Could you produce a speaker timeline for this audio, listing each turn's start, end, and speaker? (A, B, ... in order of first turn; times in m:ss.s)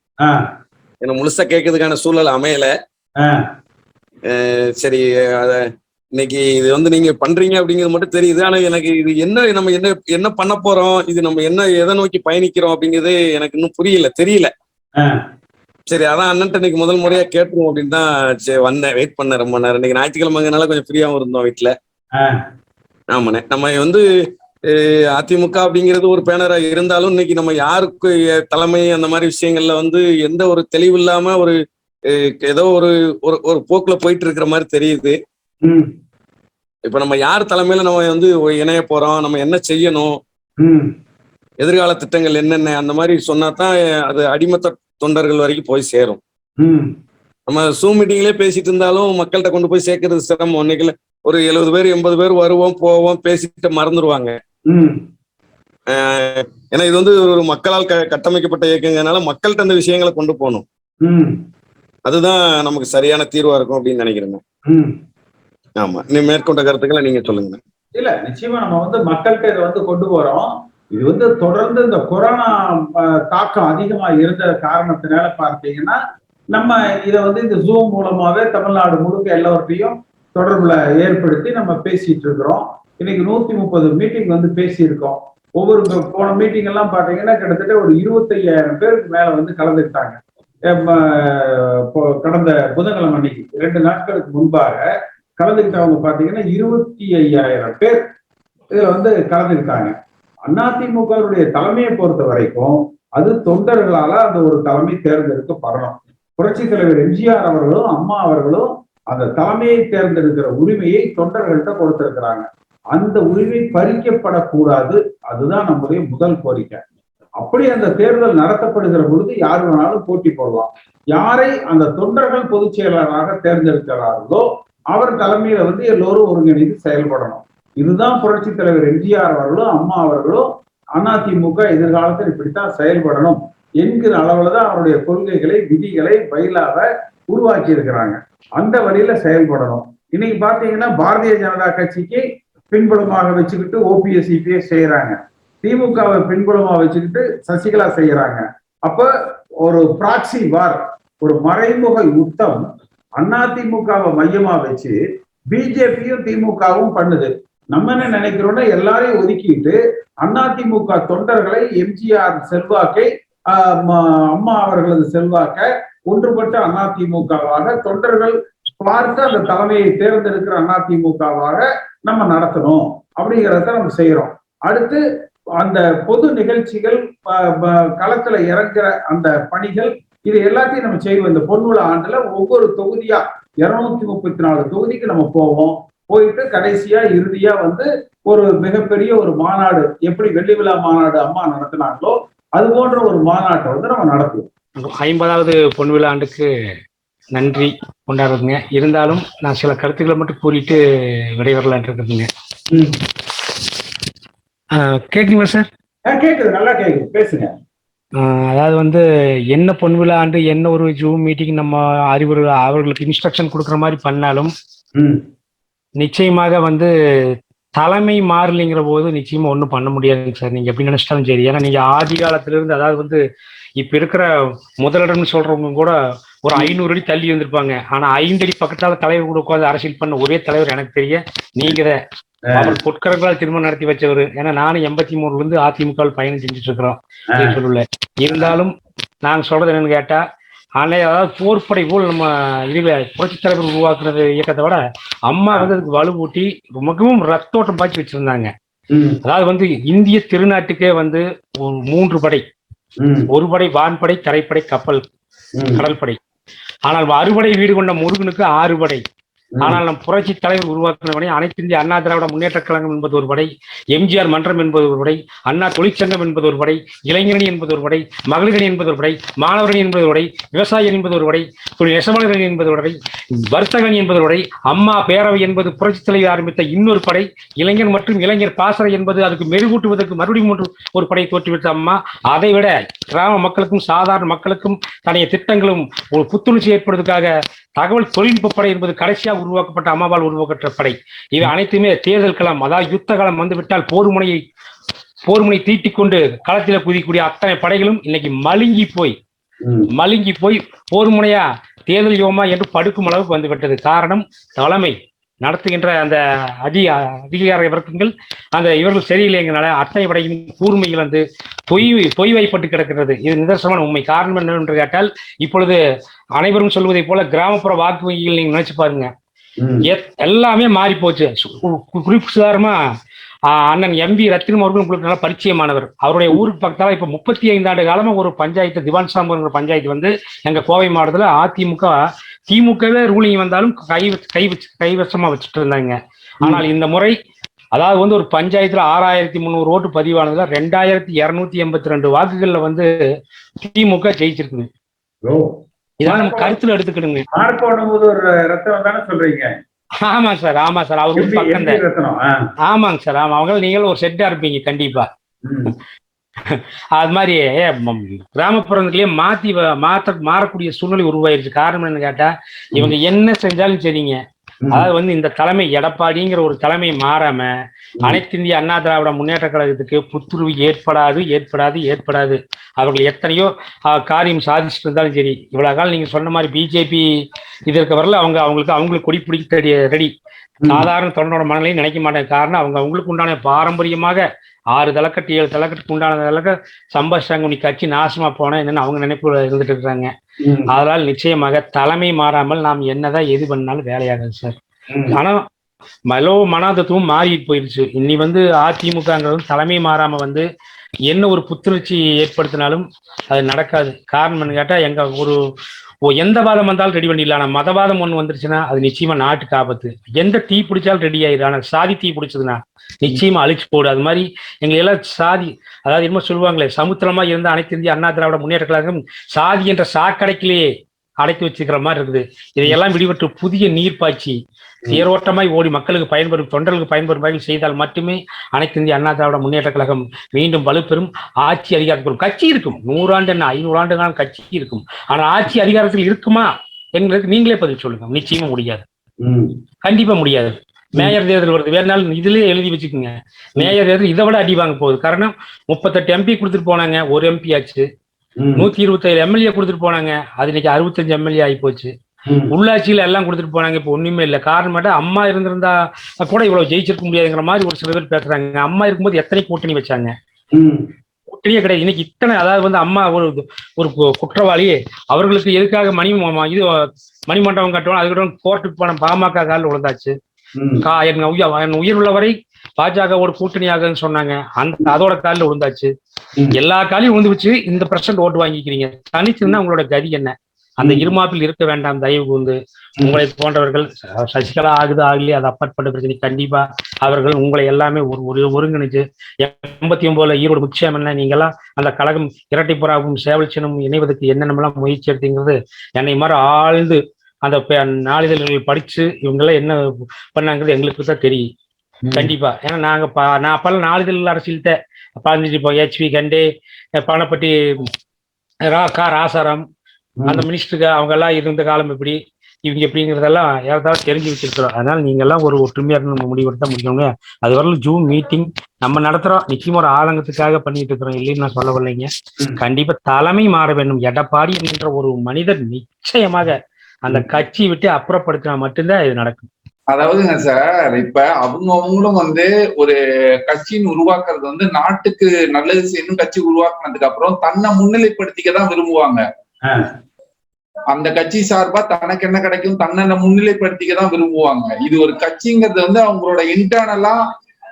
0:01.0-0:02.7 A
0:04.3-0:05.6 A
0:06.2-0:14.5 A
0:15.9-0:21.7 A
0:23.1-0:24.0 A
0:24.7-0:31.6 A
0:32.1-0:35.2 A
0:35.6-0:35.9 B
0:36.8-0:40.2 A
0:40.6-0:40.9 B
0:41.6-0:46.2 A
0:46.6-0:46.9 B
0:47.5-0:54.4 A
0:54.7-0:55.0 B
0:55.9-1:00.6 A
1:01.0-1:01.4 B
1:02.1-1:04.4 A
1:04.7-1:05.0 B
1:05.8-1:07.6 A
1:08.0-1:16.0 B
1:16.5-1:38.1 B
1:38.7-1:39.9 B
1:40.4-1:56.8 B
1:57.4-2:29.1 B
2:29.6-2:32.6 B
2:33.2-2:35.0 B
2:35.5-2:55.0 B
2:55.6-3:14.5 B
3:14.8-3:16.5 C
3:17.3-3:20.8 C
3:21.4-3:22.3 C
3:22.7-3:23.0 B
3:24.7-3:25.7 C
3:26.1-3:27.5 B
3:28.2-3:34.5 C
3:35.0-3:35.2 B
3:36.0-3:43.2 C
3:43.8-3:44.2 C
3:44.8-3:52.0 C
3:52.5-3:52.8 B
3:52.5-3:58.7 C
3:59.2-4:00.2 C
4:00.8-4:08.5 C
4:08.9-4:09.2 B
4:09.2-4:12.4 C
4:13.0-4:13.3 B
4:13.3-4:15.0 C
4:15.6-4:15.8 B
4:15.7-4:16.2 C
4:16.9-4:19.0 C
4:19.6-4:54.4 C
4:55.3-4:59.2 C
4:59.9-5:15.8 C
5:16.4-5:19.1 C
5:19.6-5:19.9 B
5:19.8-5:22.8 C
5:23.5-5:37.1 C
5:37.7-5:42.9 C
5:43.6-5:44.7 C
5:45.2-5:45.5 B
5:46.0-5:47.3 C
5:46.0-5:46.6 B
5:47.3-5:49.5 B
5:50.0-5:51.8 C
5:51.2-5:52.3 B
5:52.6-5:55.1 C
5:55.4-5:55.7 B
5:56.4-6:07.5 C
6:08.0-6:17.0 C
6:17.7-6:20.1 C
6:20.6-6:24.2 C
6:24.7-6:30.1 C
6:30.7-6:34.6 C
6:34.9-6:35.2 B
6:35.1-6:35.4 C
6:36.1-6:40.4 C
6:41.1-6:45.4 C
6:46.0-7:04.4 C
7:04.9-7:18.8 C
7:19.2-7:19.5 B
7:19.8-7:27.9 C
7:28.4-7:28.7 B
7:28.6-7:31.9 C
7:32.5-7:40.1 C
7:40.5-7:40.9 B
7:41.3-7:50.2 C
7:50.6-7:50.8 B
7:50.8-7:55.9 C
7:56.5-8:19.8 C
8:00.8-8:01.1 B
8:20.3-8:21.5 C
8:22.0-8:22.3 B
8:22.1-8:27.5 C
8:28.7-8:29.6 C
8:30.2-8:30.4 B
8:30.3-8:49.5 C
8:49.9-8:59.2 D
9:00.9-9:07.2 D